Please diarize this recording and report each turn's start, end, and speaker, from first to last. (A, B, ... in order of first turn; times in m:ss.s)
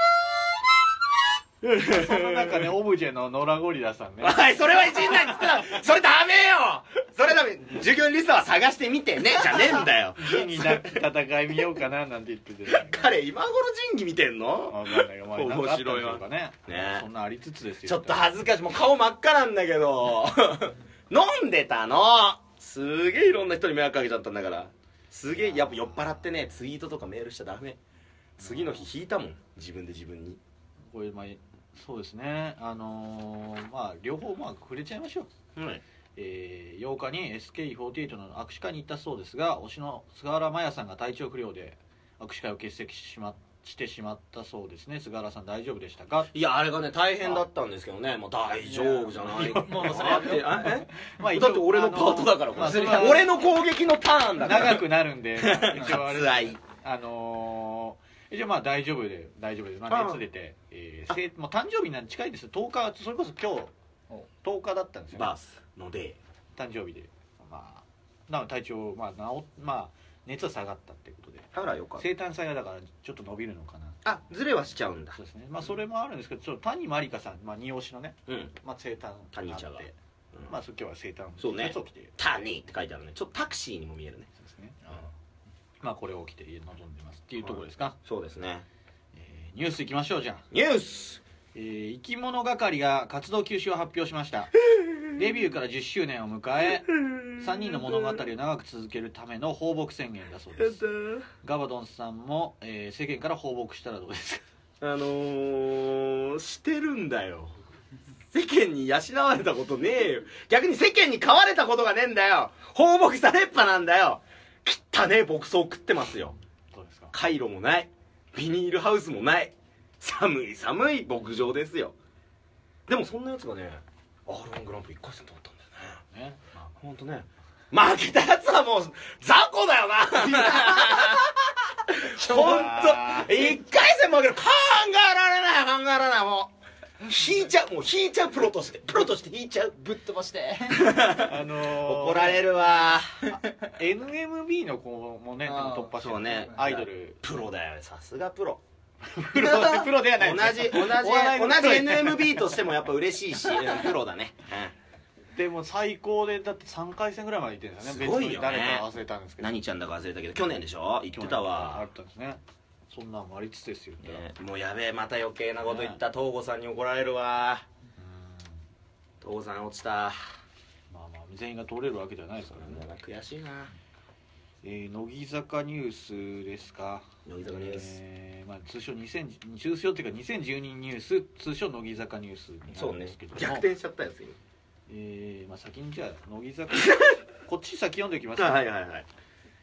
0:01.6-0:02.7 A
0:01.7-0:05.5 B
0:04.2-0:11.0 A
0:09.8-0:13.1 B
0:12.7-0:17.1 A
0:14.7-0:18.2 B
0:17.8-0:27.8 A
0:25.4-0:26.1 B
0:28.4-0:30.4 A
0:28.4-0:28.8 B
0:30.9-0:35.3 B
0:35.6-0:35.8 A
0:36.2-0:46.3 B
0:46.3-0:56.6 A
0:48.6-0:53.4 B
0:49.5-0:50.4 C
0:54.4-1:03.7 B
0:59.9-1:00.2 A
1:04.4-1:05.3 B
1:05.1-1:06.2 A
1:06.5-1:14.0 B
1:11.5-1:12.0 A
1:14.0-1:15.2 A
1:15.1-1:19.9 B
1:18.3-1:18.5 A
1:19.3-1:20.5 A
1:20.5-1:22.1 B
1:21.4-1:24.3 A
1:24.4-1:25.1 B
1:25.8-1:28.0 B
1:27.4-1:28.6 A
1:29.1-1:30.4 B
1:30.5-1:31.2 A
1:31.5-1:34.5 B
1:34.8-1:35.0 A
1:35.1-1:40.8 B
1:36.9-1:38.2 A
1:40.6-1:41.2 A
1:41.4-1:44.4 B
1:44.8-1:47.6 A
1:48.3-1:56.3 A
1:56.7-1:57.1 B
1:57.1-2:01.9 A
2:02.9-2:06.0 A
2:06.1-2:06.7 B
2:06.8-2:16.5 A
2:12.1-2:13.6 B
2:17.0-2:19.8 A
2:19.8-2:20.9 C
2:20.7-2:23.1 A
2:21.0-2:22.4 B
2:23.7-2:27.2 B
2:25.4-2:26.3 C
2:25.9-2:28.6 A
2:29.0-2:32.5 B
2:29.3-2:34.7 A
2:35.3-2:39.6 B
2:37.8-2:38.9 A
2:39.4-2:41.9 A
2:41.1-2:44.2 B
2:44.0-2:47.6 A
2:45.6-2:46.0 B
2:48.0-2:48.6 B
2:49.2-2:50.2 A
2:50.9-2:52.9 B
2:52.4-2:53.7 A
2:54.6-3:03.6 B
2:57.2-2:58.0 A
3:02.7-3:04.4 A
3:04.9-3:08.7 B
3:08.4-3:09.0 A